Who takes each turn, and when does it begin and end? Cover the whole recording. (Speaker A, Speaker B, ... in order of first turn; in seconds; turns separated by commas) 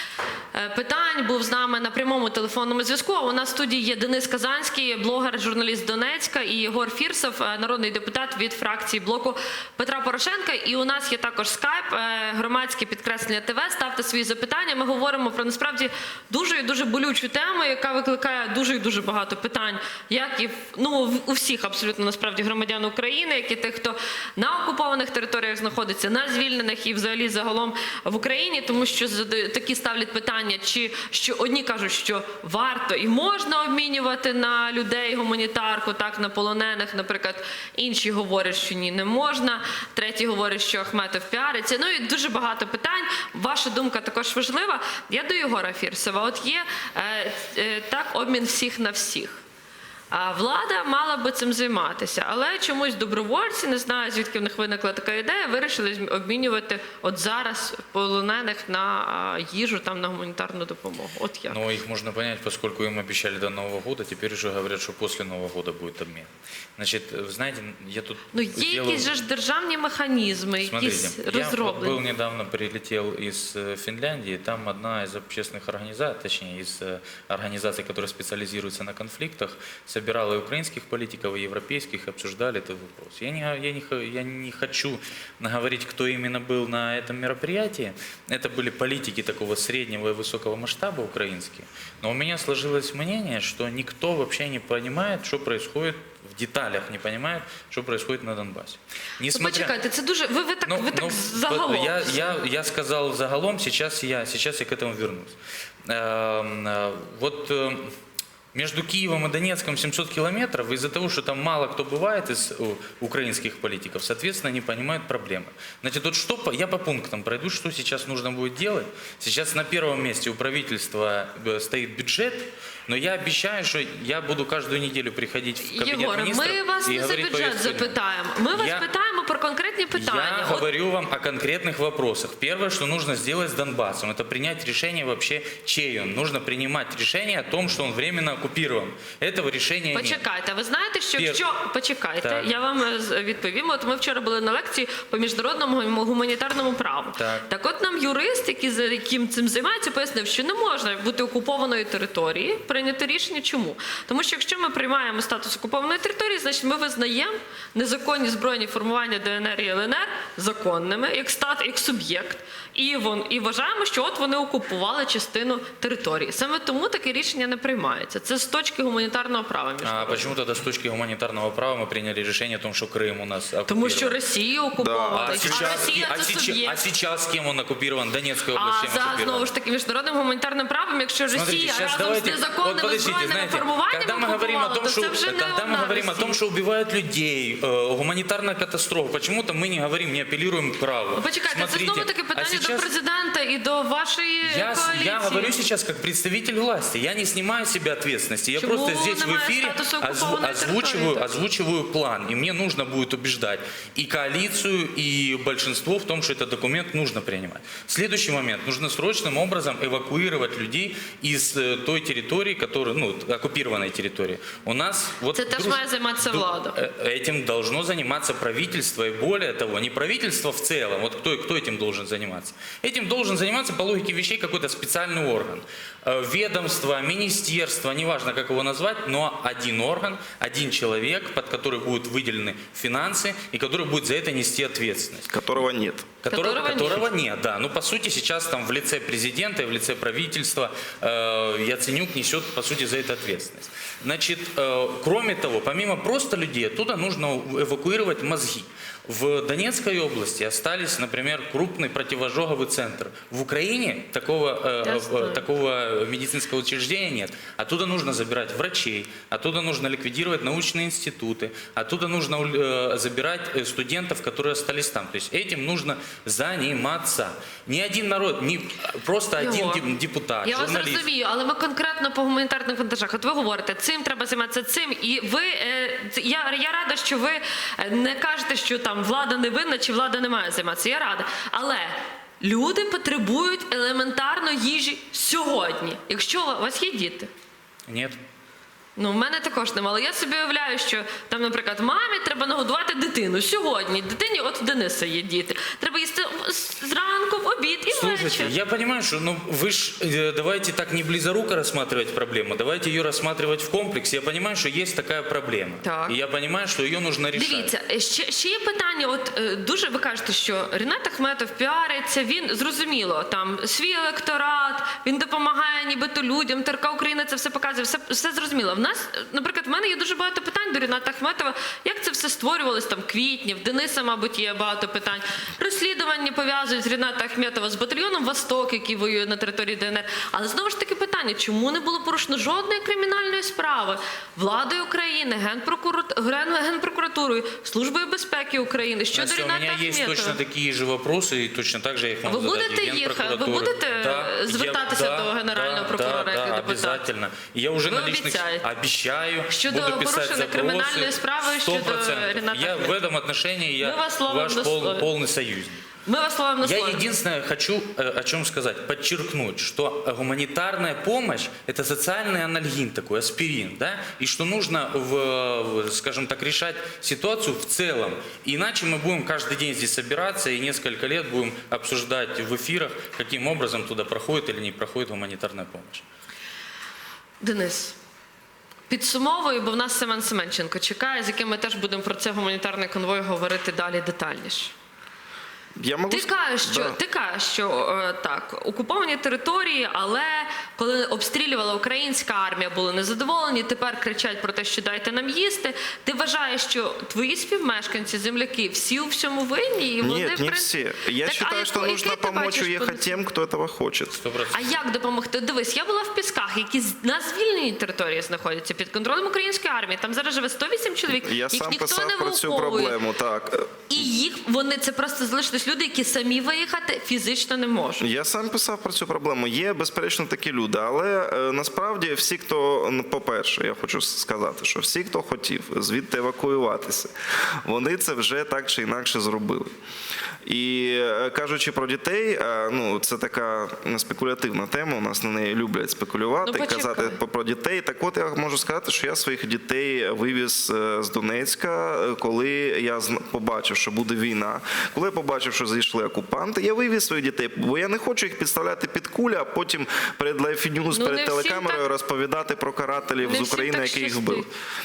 Speaker A: 0.5-49.4, Speaker A: 50.1-61.6, Speaker B: 61.5-69.1, Speaker A: 68.3-72.0, Speaker B: 70.6-99.7, Speaker A: 99.3-102.4, Speaker B: 100.7-107.9, Speaker B: 108.5-128.0, Speaker A: 125.6-130.7, Speaker B: 128.5-128.8, Speaker B: 129.9-140.2, Speaker A: 139.9-170.3, Speaker B: 141.2-141.4, Speaker B: 142.2-142.5, Speaker B: 147.2-147.4, Speaker B: 169.8-174.2, Speaker A: 173.7-176.8, Speaker C: 174.8-175.8, Speaker B: 175.1-179.5, Speaker A: 178.5-186.4, Speaker B: 181.3-192.9, Speaker A: 191.1-195.6, Speaker B: 194.4-235.6, Speaker A: 198.6-201.3, Speaker A: 215.3-216.8, Speaker C: 235.3-236.1, Speaker B: 236.2-271.0, Speaker A: 236.3-237.1, Speaker A: 254.8-255.4, Speaker A: 269.4-269.8, Speaker A: 270.4-287.3, Speaker B: 287.9-288.2, Speaker A: 288.9-298.5, Speaker B: 297.9-307.7, Speaker A: 305.8-306.1, Speaker A: 307.3-340.4, Speaker B: 339.1-355.9, Speaker A: 342.2-347.0, Speaker A: 347.9-348.7, Speaker A: 349.5-353.0, Speaker A: 353.8-355.1, Speaker A: 356.1-357.0, Speaker B: 356.6-376.0, Speaker A: 377.4-377.9, Speaker A: 378.9-384.7, Speaker C: 385.8-386.9, Speaker A: 386.1-400.7, Speaker C: 400.0-404.1, Speaker A: 401.2-403.2, Speaker B: 404.1-404.8, Speaker A: 404.5-412.9, Speaker C: 411.1-414.0, Speaker A: 413.9-418.1, Speaker C: 418.0-427.1, Speaker C: 427.6-429.7, Speaker C: 430.4-454.5, Speaker A: 436.4-437.2, Speaker A: 450.9-451.8, Speaker A: 453.2-454.5